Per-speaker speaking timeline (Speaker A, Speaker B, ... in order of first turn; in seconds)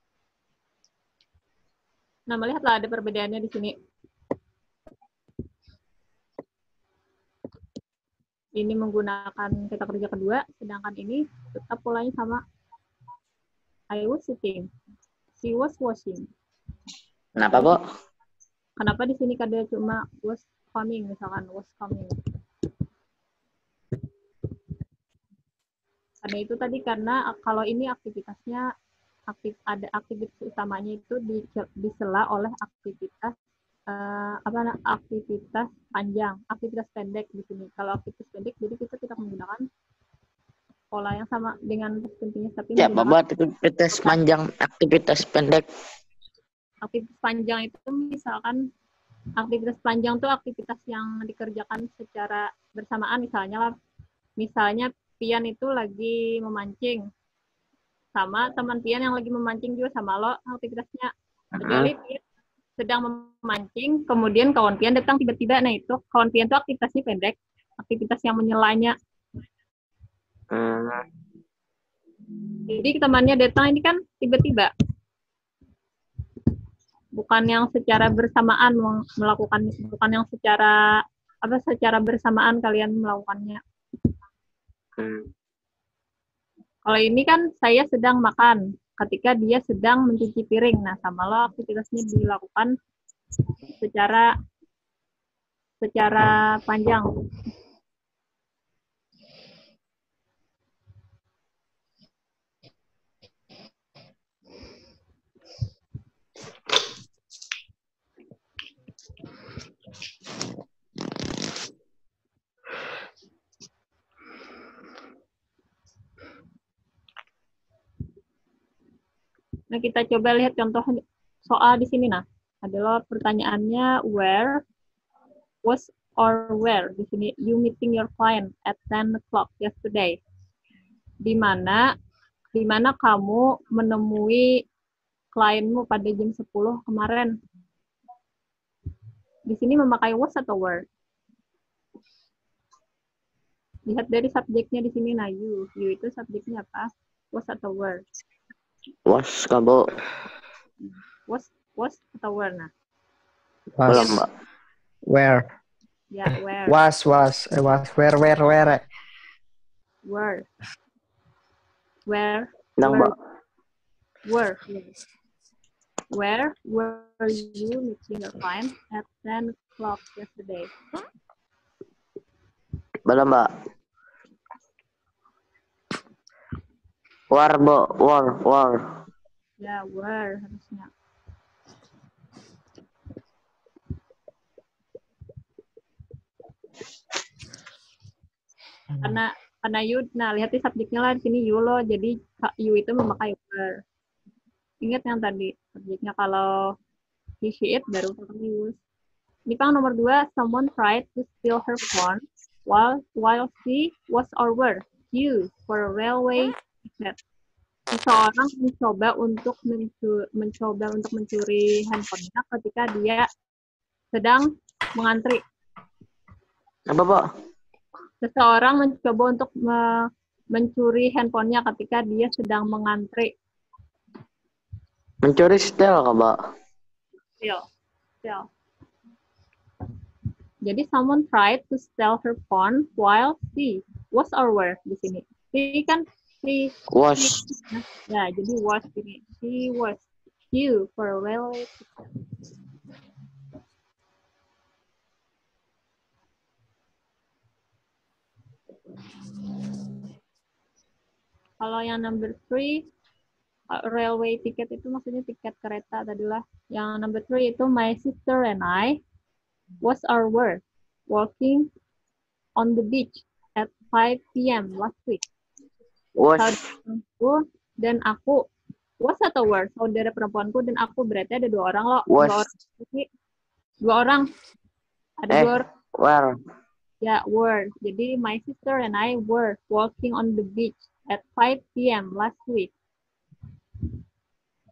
Speaker A: 2.3-3.8, 8.6-12.4, 13.9-14.7, 15.4-16.3, 18.8-22.1, 26.2-28.6, 29.3-33.3, 33.9-39.6, 40.9-43.2, 46.8-48.6, 49.4-53.7, 54.4-57.0, 58.2-62.2, 62.8-69.0, 72.7-74.7, 77.2-80.7, 81.4-83.6, 86.9-92.7, 93.8-94.3, 95.8-97.1, 119.7-124.6, 125.6-130.2, 131.2-131.8, 132.5-134.5, 135.3-137.3, 139.5-140.8, 143.9-148.0, 150.8-152.7, 156.1-156.8, 160.0-160.5, 162.1-163.1, 164.2-164.9, 166.1-170.7, 179.6-180.9, 189.0-193.8, 194.8-196.6, 197.4-198.8, 199.5-207.2, 207.9-213.3, 214.1-215.4, 218.2-223.3, 230.7-241.9, 251.6-252.8, 253.7-259.0, 259.8-261.7, 262.6-265.2, 266.4-268.4, 269.0-273.1, 273.8-274.3, 275.2-275.7, 277.0-282.7
Speaker B: 17.4-17.8, 42.8-45.7, 61.6-61.9, 70.5-71.0, 85.0-85.3, 149.1-149.9, 153.9-154.3, 162.8-163.1, 173.1-173.5, 177.3-178.9, 216.9-217.2, 225.2-226.4, 236.9-237.4, 266.2-266.6, 272.1-272.5, 275.3-276.4
Speaker C: 153.8-154.2, 155.1-155.5, 156.7-158.8, 188.9-189.2